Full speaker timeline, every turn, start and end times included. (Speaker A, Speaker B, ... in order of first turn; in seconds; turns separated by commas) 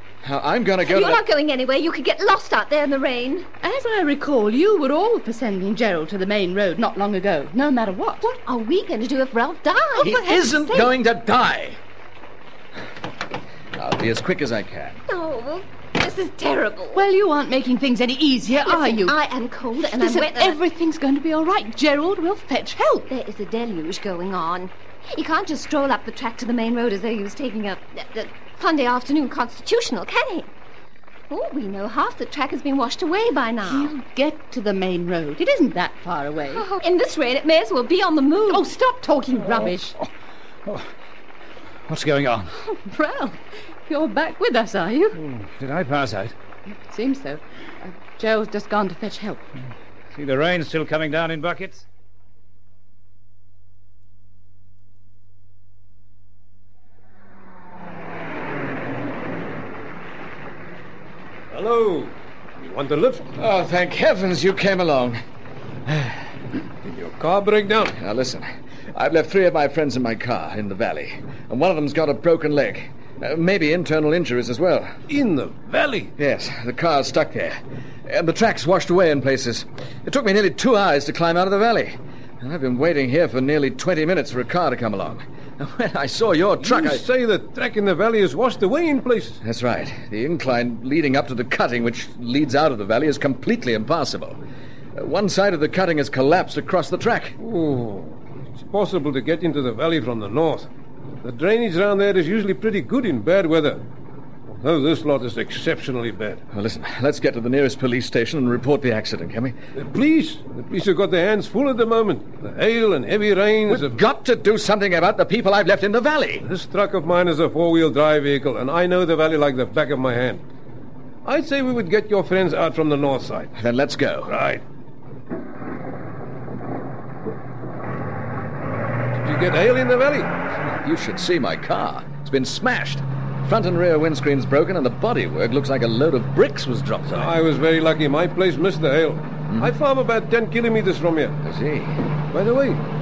Speaker A: 0.2-1.2, Speaker B: 0.8-3.5, Speaker C: 3.6-8.3, Speaker B: 8.2-10.8, Speaker A: 10.0-11.8, Speaker A: 13.8-15.0, Speaker B: 15.1-17.1, Speaker C: 16.9-19.2, Speaker B: 18.6-20.6, Speaker C: 19.9-23.1, Speaker B: 23.1-30.5, Speaker B: 31.3-33.9, Speaker C: 33.6-36.7, Speaker B: 36.6-38.7, Speaker C: 38.5-40.0, Speaker D: 41.9-42.5, Speaker C: 42.6-45.2, Speaker D: 45.2-46.3, Speaker C: 46.7-49.5, Speaker D: 50.1-51.9, Speaker E: 61.5-63.3, Speaker A: 63.4-65.2, Speaker A: 65.9-66.2, Speaker E: 66.9-68.0, Speaker A: 68.0-74.9, Speaker E: 75.1-76.1, Speaker A: 76.2-87.0, Speaker E: 86.6-89.4, Speaker A: 89.4-94.4, Speaker A: 95.0-97.4, Speaker E: 97.4-100.7, Speaker E: 101.2-103.8, Speaker E: 104.5-106.4, Speaker A: 106.5-109.6, Speaker E: 109.8-114.0, Speaker A: 113.7-116.5, Speaker E: 116.4-120.4, Speaker E: 121.2-123.5, Speaker A: 123.6-124.3, Speaker E: 124.3-124.6, Speaker E: 129.2-130.3, Speaker A: 130.7-137.3, Speaker E: 137.1-141.3, Speaker A: 141.4-142.0, Speaker E: 142.3-142.8